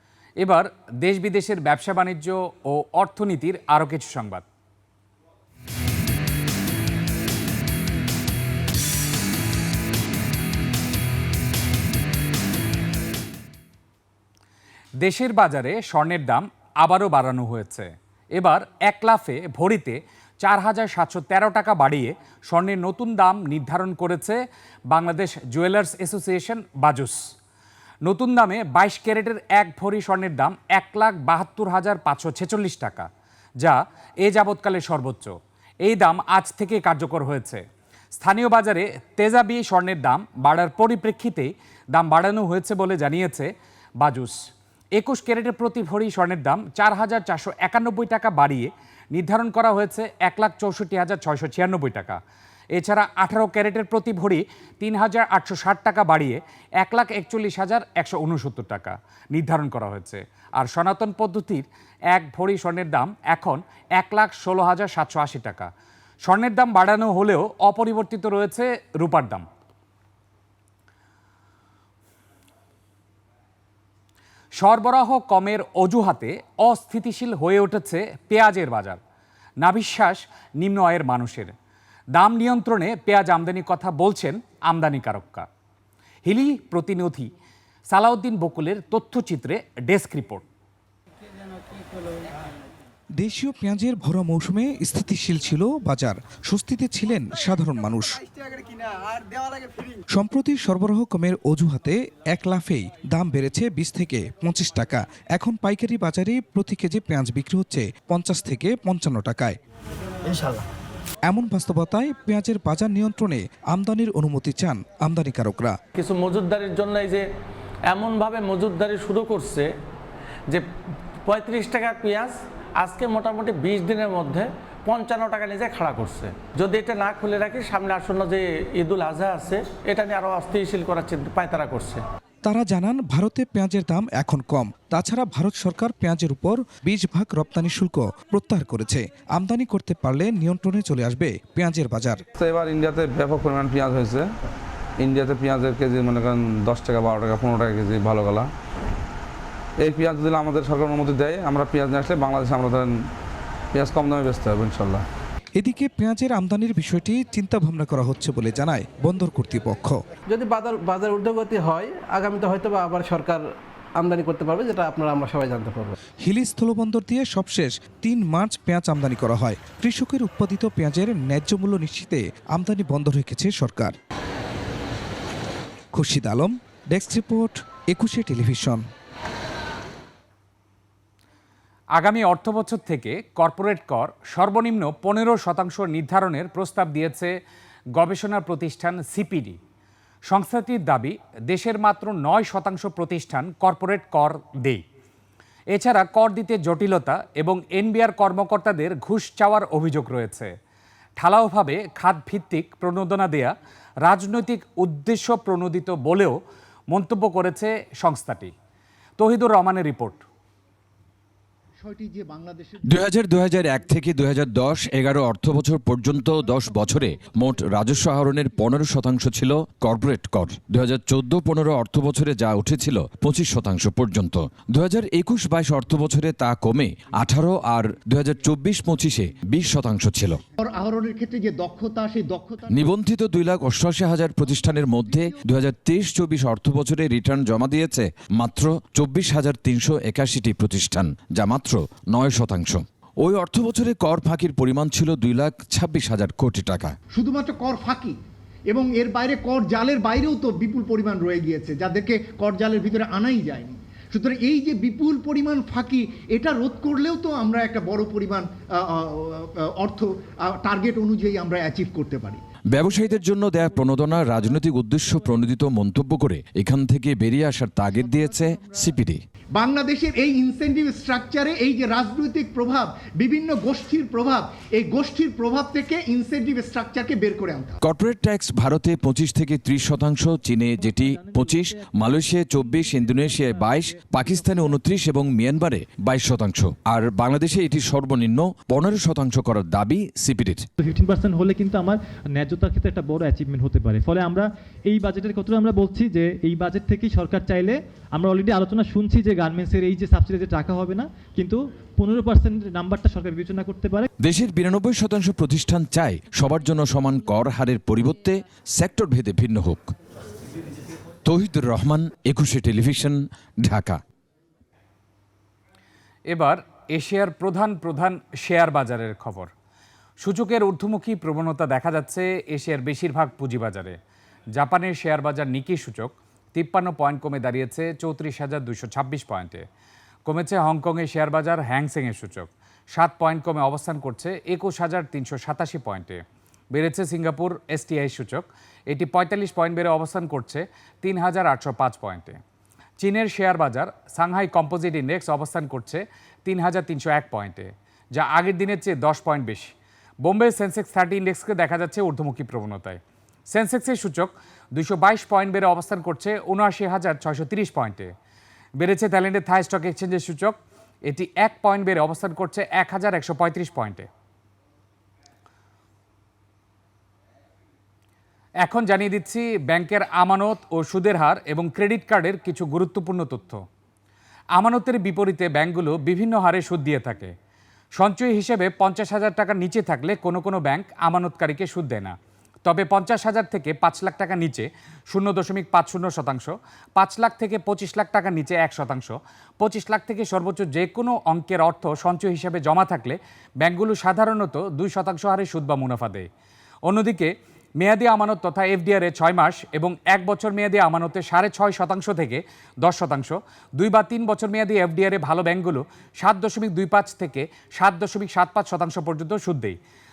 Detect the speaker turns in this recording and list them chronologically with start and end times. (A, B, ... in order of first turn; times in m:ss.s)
0:00.4-0:04.4 A
0:15.0-0:27.2 A
0:28.0-0:33.1 A
0:33.6-0:37.6 A
0:38.1-0:44.4 A
0:44.9-0:52.2 A
0:52.7-1:05.7 A
1:06.2-1:09.4 A
1:14.6-1:19.0 A
1:19.6-1:21.5 A
1:22.1-1:25.4 A
1:26.2-1:27.3 A
1:27.9-1:30.4 A
1:33.2-1:38.2 B
1:40.1-1:49.5 B
1:51.3-1:55.7 B
1:56.0-1:57.2 C
1:57.9-1:59.7 C
2:01.2-2:12.0 C
2:12.4-2:22.2 B
2:22.4-2:24.3 D
2:25.0-2:28.5 D
2:29.8-2:33.0 D
2:33.7-2:35.0 D
2:35.6-2:40.0 B
2:40.3-2:45.9 E
2:46.2-2:53.9 B
2:55.9-2:58.8 B
3:02.0-3:07.3 A
3:07.9-3:09.6 A
3:10.3-3:14.8 A
3:15.7-3:20.5 A
3:21.2-3:26.4 A
3:26.9-3:28.5 A
3:29.2-3:30.2 A
3:31.8-3:33.0 F
3:32.8-3:50.4 G
3:50.6-3:52.9 F
3:52.7-4:07.0 G
3:55.0-3:55.4 F
4:07.1-4:08.2 F
4:08.7-4:22.4 F
4:22.7-4:29.2 G
4:27.9-4:28.8 F
4:29.5-4:37.8 F
4:37.8-4:50.7 G
4:40.8-4:44.8 H
4:50.8-5:04.1 H
5:04.2-5:09.9 G
5:11.2-5:14.0 G
5:16.3-5:19.5 A
5:20.2-5:24.0 A
5:24.5-5:29.6 A
5:30.2-5:36.2 A
5:36.7-5:42.4 A
5:43.0-5:53.0 A
5:53.5-5:58.1 A
5:58.8-6:00.6 A
6:01.1-6:04.1 A
6:08.6-6:13.6 A
6:14.5-6:17.3 A
6:17.9-6:22.1 A
6:22.6-6:36.3 A
6:36.9-6:49.8 A